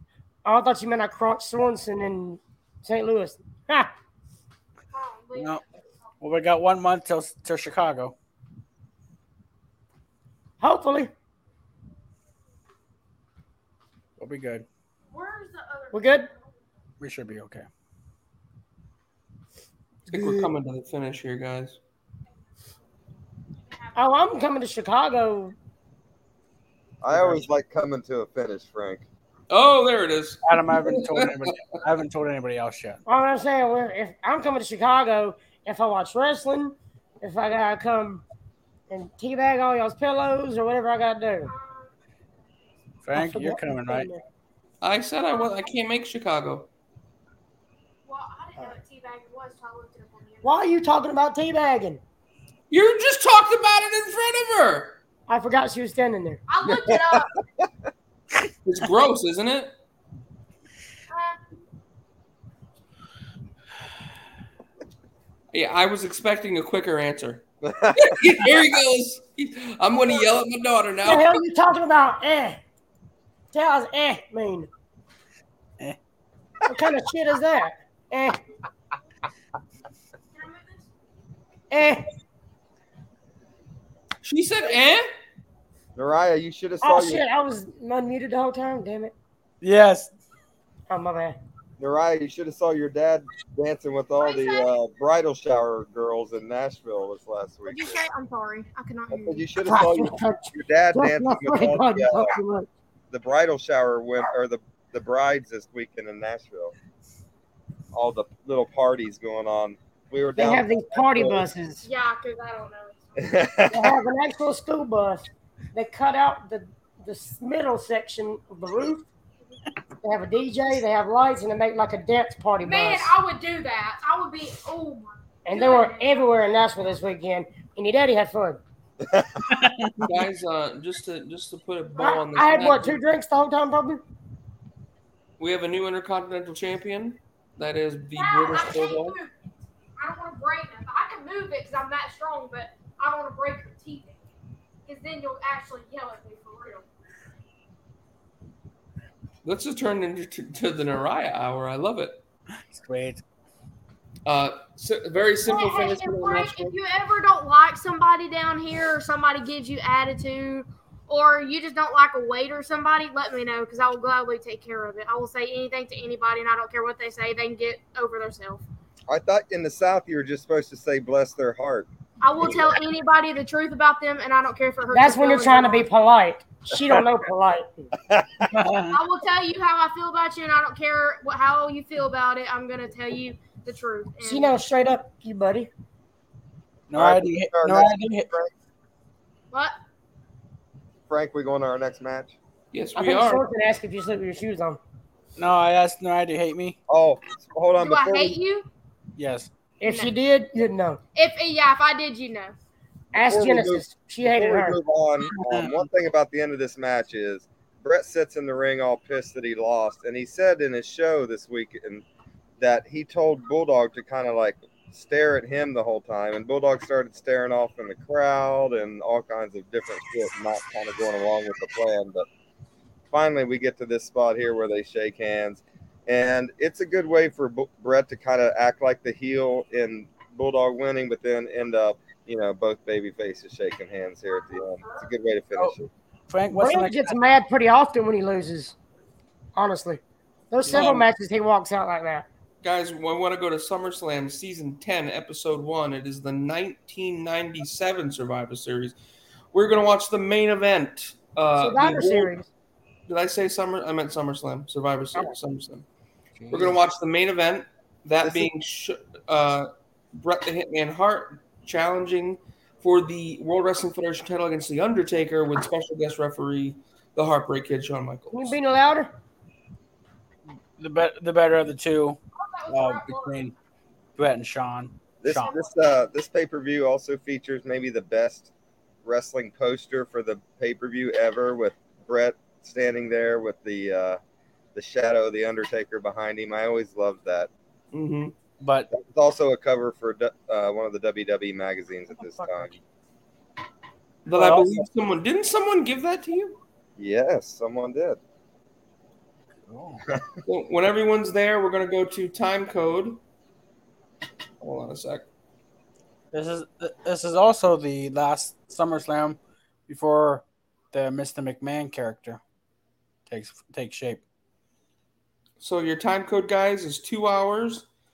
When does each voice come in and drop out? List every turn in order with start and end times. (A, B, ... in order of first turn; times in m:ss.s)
0:00.4-0:03.9 A
0:04.9-0:05.6 B
0:05.4-0:05.6 C
0:06.2-0:08.2 C
0:10.6-0:11.1 A
0:14.2-0:14.6 C
0:15.1-0:16.4 B
0:15.9-0:16.3 A
0:17.0-0:17.7 C
0:20.1-0:20.5 A
0:20.1-0:21.8 D
0:24.0-0:25.6 A
0:27.0-0:29.1 E
0:27.1-0:27.4 C
0:29.5-0:31.7 D
0:30.4-0:33.0 C
0:33.1-0:38.2 A
0:38.9-0:41.5 A
0:41.4-0:41.9 B
0:43.0-0:44.1 C
0:43.2-0:44.2 A
0:44.8-0:46.7 D
0:48.0-0:50.6 B
0:50.4-0:52.0 A
0:52.7-0:55.0 D
0:55.3-0:56.4 A
0:56.5-0:57.3 B
0:56.7-0:57.2 E
0:58.6-0:59.7 D
1:01.1-1:01.4 B
1:05.5-1:07.4 D
1:07.6-1:08.2 E
1:08.0-1:11.4 D
1:11.0-1:12.6 A
1:13.5-1:14.7 A
1:16.7-1:18.4 A
1:20.4-1:20.8 B
1:21.7-1:22.1 A
1:24.2-1:25.1 D
1:26.0-1:27.2 E
1:26.8-1:29.1 A
1:29.6-1:30.1 C
1:30.9-1:31.4 A
1:31.8-1:38.0 E
1:34.2-1:34.7 B
1:37.7-1:39.5 B
1:39.1-1:42.4 E
1:39.6-1:42.7 A
1:43.1-1:46.7 E
1:47.9-1:51.5 E
1:50.4-1:51.8 A
1:51.8-1:53.5 B
1:53.2-1:54.0 E
1:53.7-1:59.1 A
2:00.0-2:03.1 A
2:02.6-2:06.6 B
2:05.5-2:08.6 A
2:09.0-2:09.4 E
2:09.5-2:10.1 C
2:10.0-2:13.0 D
2:12.0-2:14.0 A
2:15.4-2:19.2 D
2:18.2-2:19.3 B
2:20.0-2:24.2 B
2:24.9-2:26.8 B
2:29.4-2:32.2 D
2:32.7-2:33.2 C
2:34.2-2:36.7 D
2:35.4-2:48.6 B
2:49.1-2:52.8 E
2:52.2-2:55.9 B
2:54.9-2:57.9 A
2:58.4-2:59.0 C
2:58.8-3:04.6 B
3:04.2-3:05.7 A
3:06.9-3:08.3 C
3:06.9-3:08.5 E
3:11.1-3:12.4 E
3:12.7-3:13.4 D
3:13.0-3:14.8 A
3:15.4-3:16.8 C
3:16.9-3:18.4 E
3:17.8-3:18.7 B
3:19.2-3:19.5 C
3:19.8-3:21.0 A
3:19.8-3:20.1 B
3:21.2-3:22.6 B
3:23.1-3:24.8 A
3:23.2-3:32.0 E
3:25.3-3:25.7 C
3:32.6-3:42.3 E
3:43.1-3:55.9 E
3:54.3-3:55.0 B
3:56.3-3:57.2 C
3:56.5-3:58.8 A
3:59.6-4:02.3 A
4:00.7-4:01.1 C
4:02.6-4:09.0 D
4:09.5-4:12.4 D
4:11.6-4:12.5 A
4:13.1-4:15.8 D
4:16.4-4:16.8 C
4:16.5-4:28.6 D
4:18.2-4:18.5 E
4:28.3-4:29.1 A
4:30.8-4:33.5 C
4:32.4-4:33.5 B
4:34.2-4:35.5 C
4:35.2-4:38.5 E
4:35.3-4:35.7 B
4:39.0-4:44.2 E
4:44.8-4:47.5 E
4:47.9-4:48.4 D
4:48.6-4:48.9 C
4:48.9-4:52.7 E
4:52.2-4:52.7 C
4:54.2-4:56.6 D
4:54.3-4:54.8 C
4:57.0-4:58.2 E
4:59.7-5:00.0 C
5:00.5-5:03.2 D
5:04.6-5:05.2 D
5:06.3-5:12.4 C
5:13.3-5:14.2 C
5:15.6-5:17.9 D